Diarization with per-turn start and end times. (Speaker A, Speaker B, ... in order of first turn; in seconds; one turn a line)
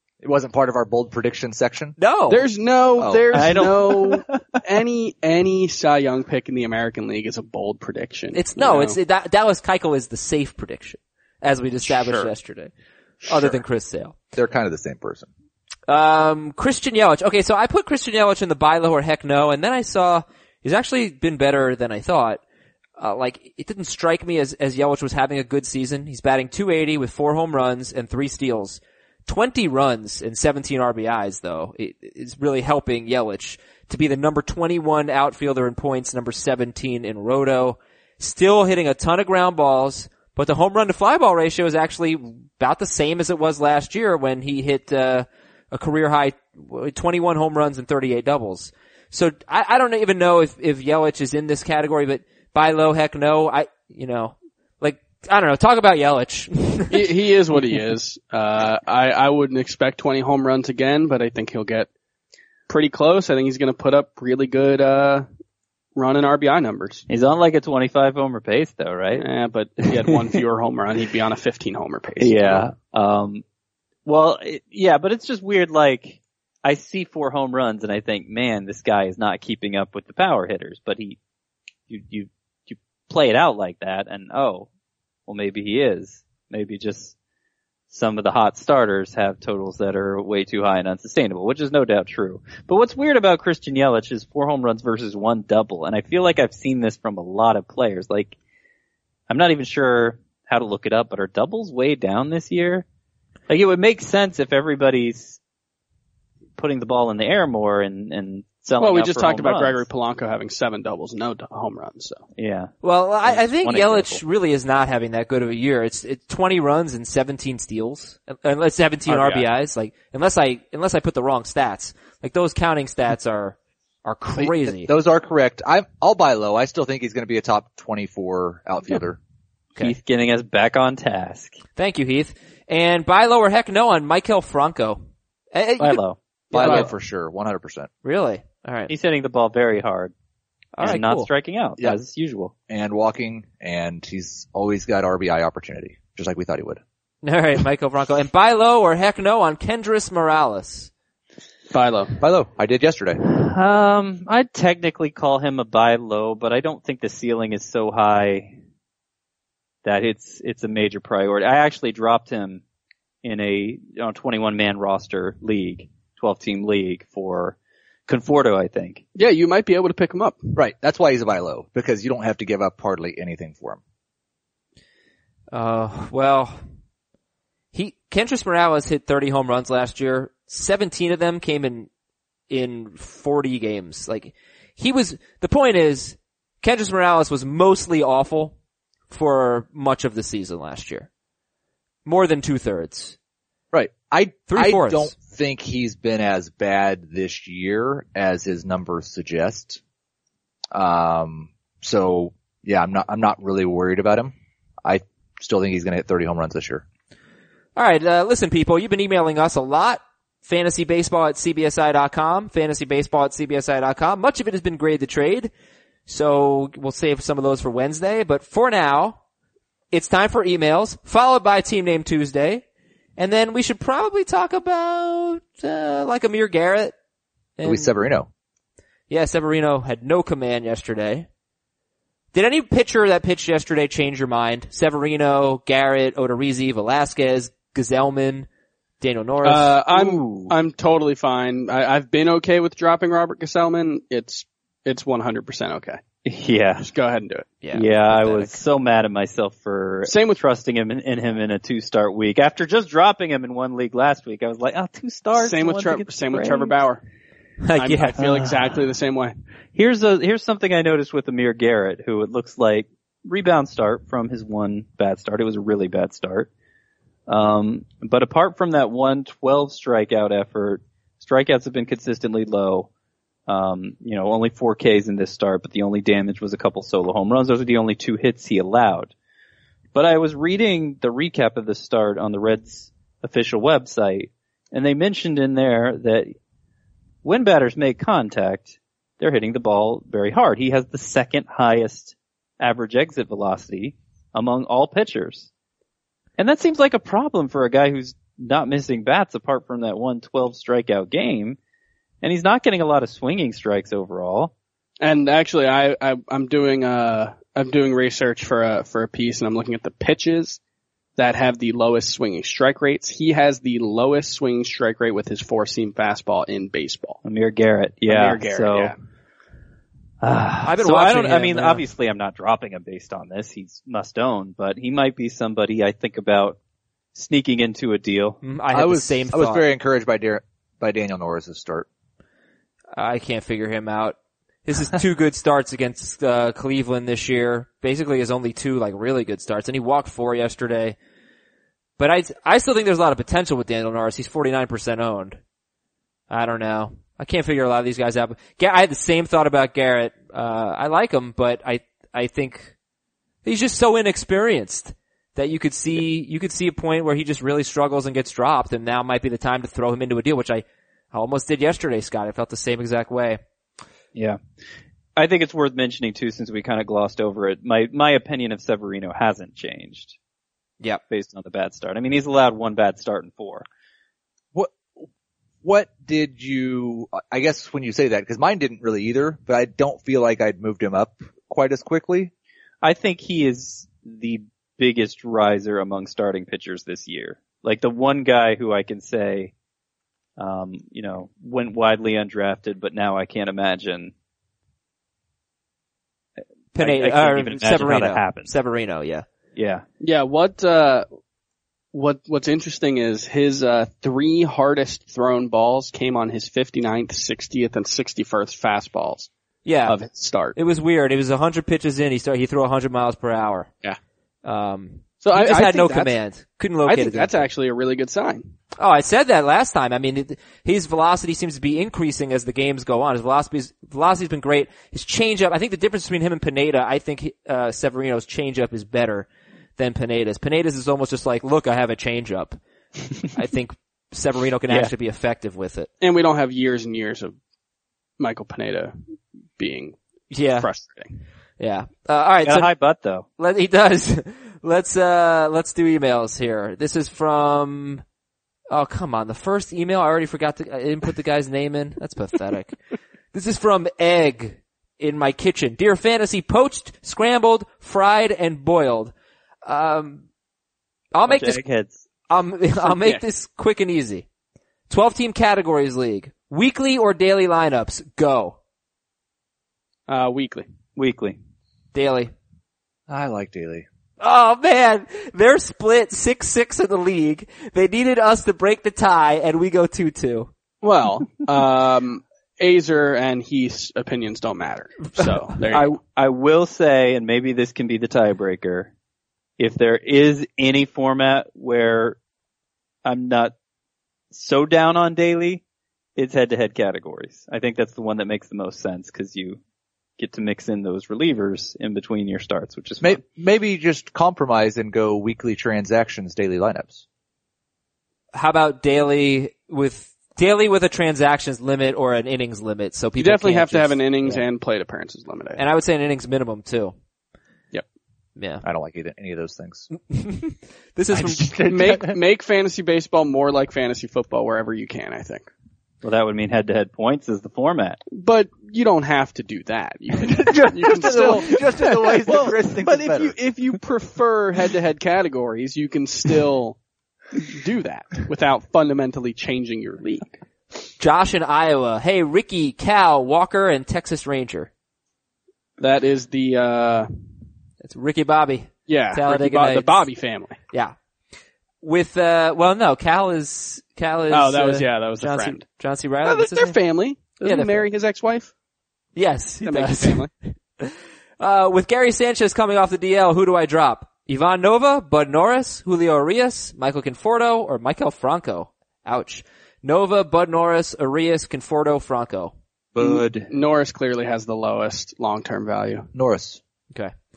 Speaker A: 0.2-1.9
Speaker B: 2.0-2.5
Speaker C: 2.3-9.0
Speaker A: 3.0-3.6
Speaker D: 3.3-4.4
Speaker B: 8.3-12.7
Speaker C: 11.9-12.3
Speaker B: 13.2-14.2
Speaker A: 13.3-13.5
Speaker A: 14.3-15.3
Speaker B: 15.9-22.4
Speaker B: 23.0-57.1
Speaker C: 56.9-61.9
Speaker C: 62.7-65.3
Speaker C: 66.0-67.0
Speaker D: 67.1-69.2
Speaker C: 69.2-72.7
Speaker D: 72.2-73.4
Speaker D: 74.0-81.2
Speaker D: 81.9-84.7
Speaker D: 85.3-87.1
Speaker D: 87.9-98.4
Speaker D: 99.3-102.8
Speaker D: 103.5-105.4
Speaker D: 106.6-109.8
Speaker C: 108.8-112.2
Speaker D: 112.4-114.2
Speaker B: 112.8-124.9
Speaker D: 119.1-119.5
Speaker A: 124.4-129.2
Speaker D: 129.8-131.6
Speaker B: 131.8-135.0
Speaker B: 135.5-136.0
Speaker D: 135.8-136.2
Speaker A: 136.5-137.9
Speaker B: 136.5-136.9
Speaker B: 138.0-138.9
Speaker D: 138.9-140.1
Speaker B: 140.8-141.3
Speaker D: 140.8-142.5
Speaker A: 142.7-146.8
Speaker B: 147.2-150.9
Speaker C: 151.7-152.2
Speaker A: 152.2-153.2
Speaker D: 153.2-158.5
Speaker D: 159.8-162.6
Speaker D: 163.2-167.6
Speaker D: 168.1-169.0
Speaker C: 169.1-170.5
Speaker A: 170.5-173.8
Speaker B: 175.5-176.6
Speaker B: 177.7-181.9
Speaker B: 182.5-188.5
Speaker B: 189.1-191.1
Speaker B: 192.0-193.2
Speaker A: 193.7-199.8
Speaker B: 194.5-195.1
Speaker A: 200.7-204.3
Speaker A: 204.8-206.8
Speaker B: 207.7-215.5
Speaker B: 216.1-219.2
Speaker B: 219.9-222.6
Speaker B: 223.2-226.9
Speaker B: 227.6-227.9
Speaker A: 227.6-228.3
Speaker B: 229.1-231.3
Speaker B: 232.3-238.5
Speaker B: 239.0-239.8
Speaker C: 239.4-246.0
Speaker D: 239.9-240.5
Speaker D: 246.2-246.9
Speaker C: 246.8-247.5
Speaker B: 247.6-248.6
Speaker D: 247.7-256.8
Speaker C: 250.1-250.4
Speaker C: 255.4-257.0
Speaker B: 257.6-258.2
Speaker C: 257.8-259.4
Speaker D: 258.2-258.8
Speaker D: 259.7-266.5
Speaker D: 267.3-272.9
Speaker D: 273.5-279.1
Speaker D: 279.9-286.3
Speaker D: 287.2-295.5
Speaker D: 296.4-301.6
Speaker D: 302.2-304.5
Speaker C: 305.0-310.6
Speaker C: 311.2-317.2
Speaker D: 317.2-318.9
Speaker C: 318.1-318.9
Speaker D: 320.2-326.6
Speaker B: 320.6-321.8
Speaker D: 327.1-328.4
Speaker B: 328.4-329.6
Speaker A: 328.7-331.9
Speaker B: 332.9-340.9
Speaker B: 342.0-345.4
Speaker B: 346.3-352.7
Speaker B: 353.4-363.4
Speaker D: 364.1-364.4
Speaker D: 365.1-370.1
Speaker D: 371.1-373.6
Speaker A: 374.5-375.0
Speaker A: 375.6-382.3
Speaker D: 382.8-389.5
Speaker D: 390.4-394.1
Speaker B: 396.7-399.2
Speaker D: 396.8-398.5
Speaker D: 399.6-399.8
Speaker C: 400.0-401.1
Speaker C: 401.9-409.3
Speaker B: 409.6-410.0
Speaker C: 409.9-410.6
Speaker B: 410.5-413.7
Speaker B: 414.4-417.5
Speaker C: 415.2-416.1
Speaker C: 416.8-418.5
Speaker B: 418.8-432.6
Speaker B: 433.3-435.9
Speaker C: 436.0-437.4
Speaker C: 438.2-438.9
Speaker C: 439.6-439.9
Speaker B: 440.3-440.7
Speaker C: 440.5-441.1
Speaker B: 441.6-442.7
Speaker D: 442.4-443.2
Speaker B: 443.4-448.0
Speaker B: 448.7-452.8
Speaker B: 453.3-459.1
Speaker B: 459.6-460.2
Speaker B: 461.1-461.6
Speaker D: 461.3-462.0
Speaker B: 462.3-464.2
Speaker C: 462.8-463.2
Speaker B: 464.9-468.6
Speaker C: 470.1-470.7
Speaker D: 470.9-471.4
Speaker B: 471.9-472.3
Speaker A: 473.1-473.9
Speaker B: 474.2-480.5
Speaker C: 480.8-485.9
Speaker D: 485.7-488.9
Speaker D: 489.6-492.2
Speaker D: 493.0-493.5
Speaker D: 494.3-495.6
Speaker D: 496.1-499.6
Speaker D: 500.2-503.2
Speaker A: 503.0-507.0
Speaker B: 508.3-514.4
Speaker C: 513.2-515.6
Speaker B: 515.5-516.9
Speaker B: 518.4-518.6
Speaker A: 518.6-519.9
Speaker B: 520.1-521.6
Speaker A: 521.1-522.1
Speaker C: 521.7-525.5
Speaker D: 526.0-528.0
Speaker C: 528.1-536.8
Speaker A: 530.3-533.4
Speaker C: 537.4-540.4
Speaker B: 541.0-544.7
Speaker C: 545.8-547.1
Speaker B: 547.8-550.1
Speaker C: 548.9-550.6
Speaker B: 551.8-556.8
Speaker C: 554.3-555.6
Speaker C: 556.2-558.5
Speaker B: 557.4-557.9
Speaker B: 559.1-572.5
Speaker C: 559.6-560.3
Speaker A: 572.9-573.5
Speaker C: 573.0-576.1
Speaker A: 576.1-576.6